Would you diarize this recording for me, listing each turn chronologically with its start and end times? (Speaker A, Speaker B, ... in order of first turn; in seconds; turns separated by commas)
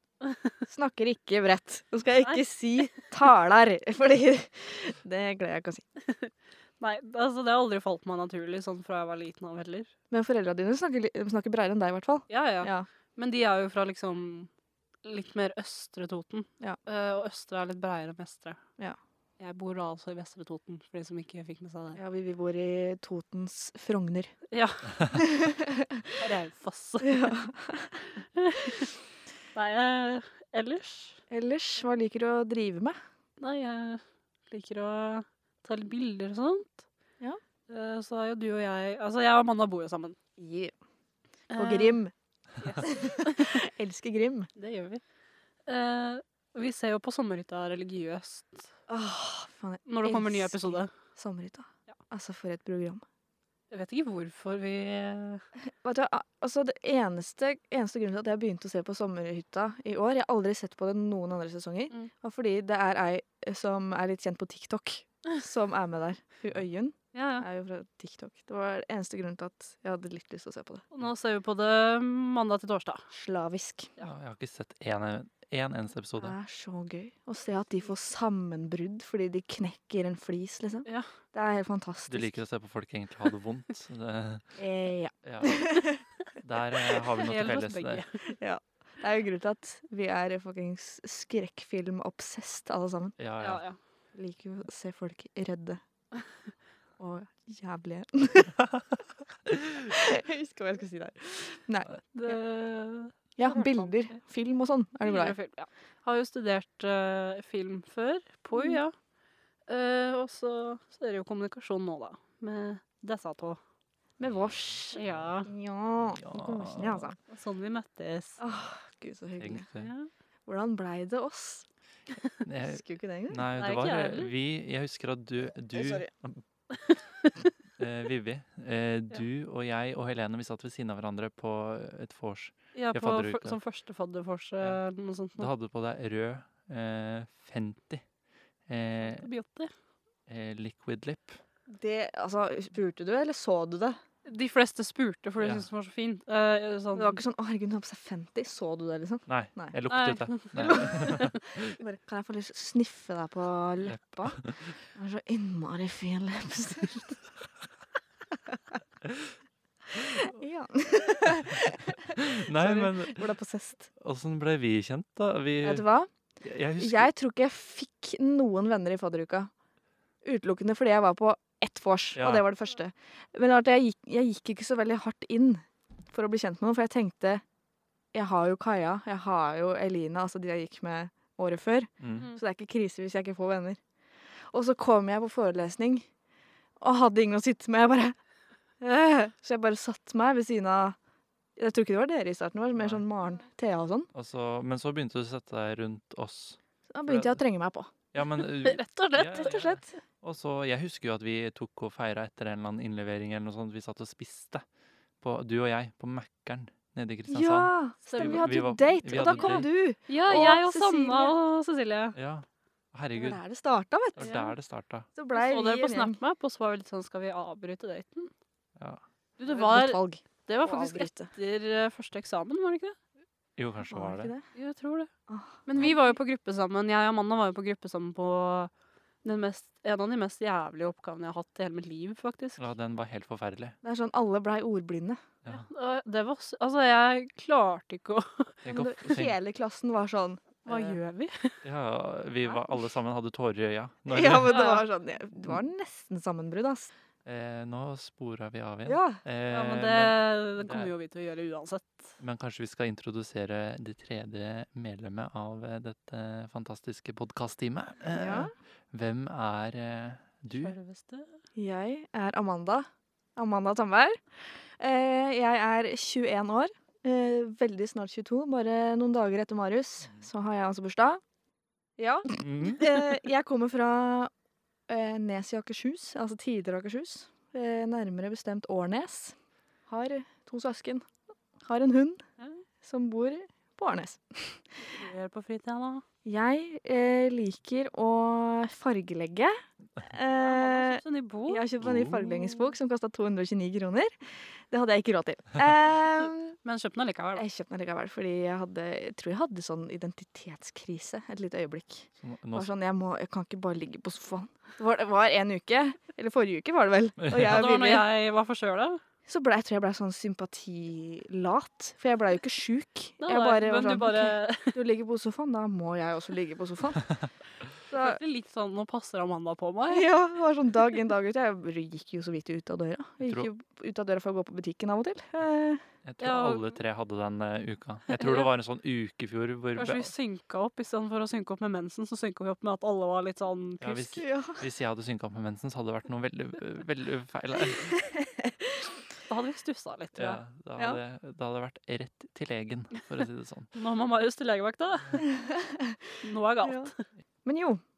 Speaker A: 0.2-0.5, Speaker B: 0.7-5.8, Speaker A: 2.2-3.1, Speaker A: 6.0-9.9, Speaker B: 10.1-12.9, Speaker A: 12.3-14.5, Speaker A: 15.0-18.6, Speaker A: 19.4-22.0, Speaker B: 21.9-24.3, Speaker A: 24.5-25.1, Speaker B: 25.1-26.2, Speaker A: 26.2-27.3, Speaker B: 27.0-28.1, Speaker A: 28.3-28.9, Speaker A: 29.5-31.2, Speaker B: 31.3-33.0, Speaker A: 33.4-36.8, Speaker A: 37.7-40.2, Speaker B: 40.4-40.7, Speaker A: 41.5-42.0, Speaker B: 41.5-42.1, Speaker A: 42.6-43.6, Speaker B: 42.8-44.5, Speaker A: 44.5-45.0, Speaker A: 45.7-48.7, Speaker B: 48.9-53.0, Speaker A: 49.9-50.9, Speaker A: 53.7-55.4, Speaker B: 55.8-70.8, Speaker A: 67.1-67.5, Speaker A: 70.9-73.0, Speaker B: 73.1-73.9, Speaker C: 74.0-76.3, Speaker B: 76.2-82.4, Speaker C: 82.1-84.5, Speaker B: 84.6-86.0, Speaker C: 85.2-85.8, Speaker C: 86.4-88.0, Speaker A: 87.2-88.2, Speaker B: 88.3-93.2, Speaker C: 93.2-93.6, Speaker A: 93.4-93.8, Speaker B: 94.1-95.8, Speaker B: 97.0-98.6, Speaker B: 99.5-102.3, Speaker A: 102.1-104.1, Speaker B: 103.4-105.3, Speaker A: 105.0-108.9, Speaker B: 108.5-108.8, Speaker A: 109.7-113.6, Speaker B: 114.2-117.2, Speaker A: 114.9-115.5, Speaker C: 116.1-117.1, Speaker A: 117.3-118.4, Speaker B: 118.4-119.7, Speaker C: 119.4-119.9, Speaker A: 119.8-120.1, Speaker B: 120.5-121.7, Speaker C: 122.4-126.4, Speaker B: 122.6-123.4, Speaker A: 123.6-124.3, Speaker B: 125.7-126.1, Speaker A: 126.7-127.5, Speaker C: 127.8-133.6, Speaker A: 132.7-135.5, Speaker C: 135.4-138.0, Speaker C: 138.7-139.3, Speaker A: 139.0-139.7, Speaker C: 140.3-141.4, Speaker B: 141.7-144.0, Speaker A: 144.2-147.2, Speaker C: 145.4-145.7, Speaker B: 146.9-149.8, Speaker C: 149.3-151.7, Speaker A: 149.9-151.3, Speaker B: 150.6-157.2, Speaker C: 153.8-154.7, Speaker C: 159.0-159.3, Speaker B: 159.9-163.9, Speaker C: 161.2-163.3, Speaker C: 164.0-165.8, Speaker B: 165.6-166.1, Speaker C: 166.4-167.1, Speaker B: 166.8-169.5, Speaker B: 170.2-177.4, Speaker C: 172.1-172.4, Speaker B: 178.1-183.8, Speaker C: 182.0-182.3, Speaker A: 182.1-182.4, Speaker B: 184.5-186.1, Speaker B: 186.8-188.2, Speaker B: 188.8-190.9, Speaker B: 191.6-194.1, Speaker C: 192.8-193.0, Speaker C: 194.1-197.4, Speaker B: 196.9-197.9, Speaker C: 198.1-204.6, Speaker A: 198.4-199.9, Speaker B: 199.4-199.8, Speaker C: 205.2-209.7, Speaker B: 207.3-211.3, Speaker A: 208.1-208.5, Speaker A: 209.2-212.2, Speaker C: 212.1-213.4, Speaker B: 213.1-214.3, Speaker C: 214.2-215.1, Speaker A: 214.2-214.5, Speaker B: 215.1-216.2, Speaker A: 215.3-218.3, Speaker C: 218.8-219.0, Speaker A: 219.4-223.0, Speaker B: 219.5-221.3, Speaker C: 223.6-224.3, Speaker B: 223.9-224.4, Speaker A: 224.5-225.1, Speaker B: 225.3-226.1, Speaker A: 225.7-228.7, Speaker A: 229.2-232.6, Speaker C: 232.6-233.8, Speaker B: 233.8-235.2, Speaker A: 235.5-238.6, Speaker C: 238.6-239.3, Speaker B: 238.7-241.0, Speaker A: 240.7-241.6, Speaker C: 241.6-244.6, Speaker B: 244.1-246.9, Speaker A: 244.5-244.8, Speaker C: 247.2-250.9, Speaker B: 248.8-249.2, Speaker A: 249.5-252.2, Speaker C: 252.2-260.7, Speaker B: 258.1-258.5, Speaker A: 260.5-261.3, Speaker B: 261.6-264.2, Speaker B: 264.8-271.2, Speaker B: 272.0-274.3, Speaker C: 272.4-273.0, Speaker B: 274.9-279.4, Speaker B: 279.9-281.1, Speaker B: 281.6-282.2, Speaker B: 282.8-285.0, Speaker A: 284.8-286.0, Speaker B: 286.2-296.6, Speaker A: 290.3-291.6, Speaker C: 291.8-292.4, Speaker A: 296.6-297.4, Speaker B: 297.4-308.1, Speaker C: 302.2-302.7, Speaker C: 307.2-307.7, Speaker A: 307.4-309.0, Speaker B: 309.2-317.1, Speaker A: 313.2-314.8, Speaker B: 317.9-318.2, Speaker A: 317.9-320.1, Speaker B: 319.9-325.8, Speaker C: 326.0-330.1, Speaker A: 326.2-326.7, Speaker A: 328.1-328.5, Speaker A: 329.8-334.2, Speaker C: 333.8-337.9, Speaker B: 334.2-334.6, Speaker B: 338.0-338.5, Speaker A: 339.3-340.4, Speaker C: 340.1-343.7, Speaker A: 343.7-345.2, Speaker B: 345.2-346.0, Speaker A: 346.2-347.0, Speaker B: 346.6-346.9, Speaker B: 347.4-347.8